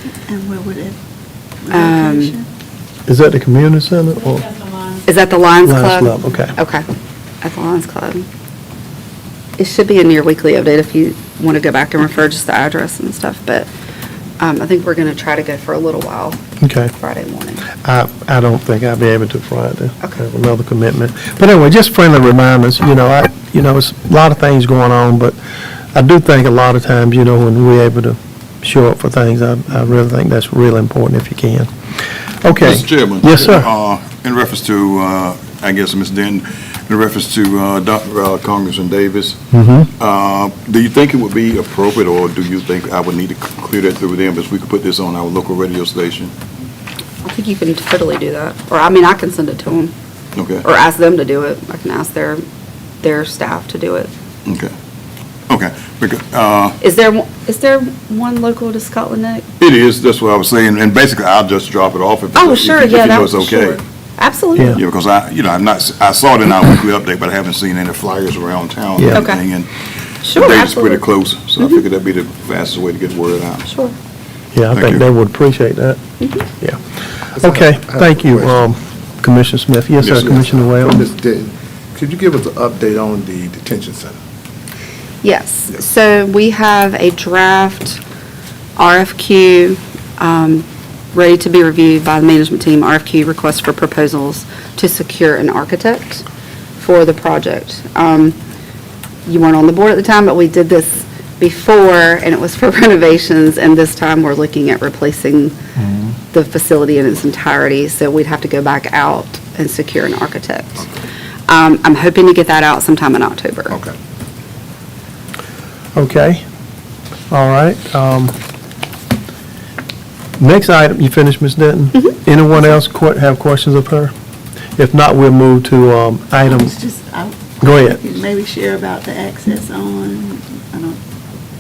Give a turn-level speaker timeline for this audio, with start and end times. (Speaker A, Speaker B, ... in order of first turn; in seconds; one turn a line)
Speaker A: 0.3-1.0
Speaker A: 1.6-2.5
Speaker B: 1.7-2.4
Speaker C: 3.1-4.5
Speaker B: 5.0-6.8
Speaker C: 5.6-6.5
Speaker B: 7.4-8.3
Speaker B: 9.6-13.7
Speaker B: 14.4-16.4
Speaker C: 16.6-16.9
Speaker B: 17.0-17.6
Speaker C: 17.8-25.4
Speaker C: 25.9-31.7
Speaker C: 32.4-33.7
Speaker D: 32.5-39.4
Speaker C: 39.5-39.9
Speaker D: 40.0-46.3
Speaker B: 47.2-49.9
Speaker D: 50.4-50.6
Speaker B: 50.6-52.4
Speaker B: 53.0-54.1
Speaker D: 54.5-54.7
Speaker D: 55.5-56.8
Speaker B: 56.8-59.4
Speaker D: 59.6-63.8
Speaker B: 62.3-64.8
Speaker D: 64.8-69.7
Speaker C: 69.0-69.2
Speaker B: 69.1-69.4
Speaker B: 70.2-71.0
Speaker D: 70.3-73.7
Speaker B: 73.7-73.9
Speaker C: 74.5-76.0
Speaker D: 74.7-75.0
Speaker C: 77.4-81.0
Speaker E: 77.4-78.6
Speaker E: 80.2-84.2
Speaker B: 85.2-88.0
Speaker B: 88.8-96.2
Speaker B: 96.8-98.3
Speaker B: 99.2-105.6
Speaker B: 106.3-110.8
Speaker B: 111.5-113.8
Speaker C: 115.9-116.4
Speaker C: 117.3-118.3
Speaker C: 120.4-124.1
Speaker C: 124.8-126.7
Speaker A: 126.5-131.0
Speaker C: 127.6-128.0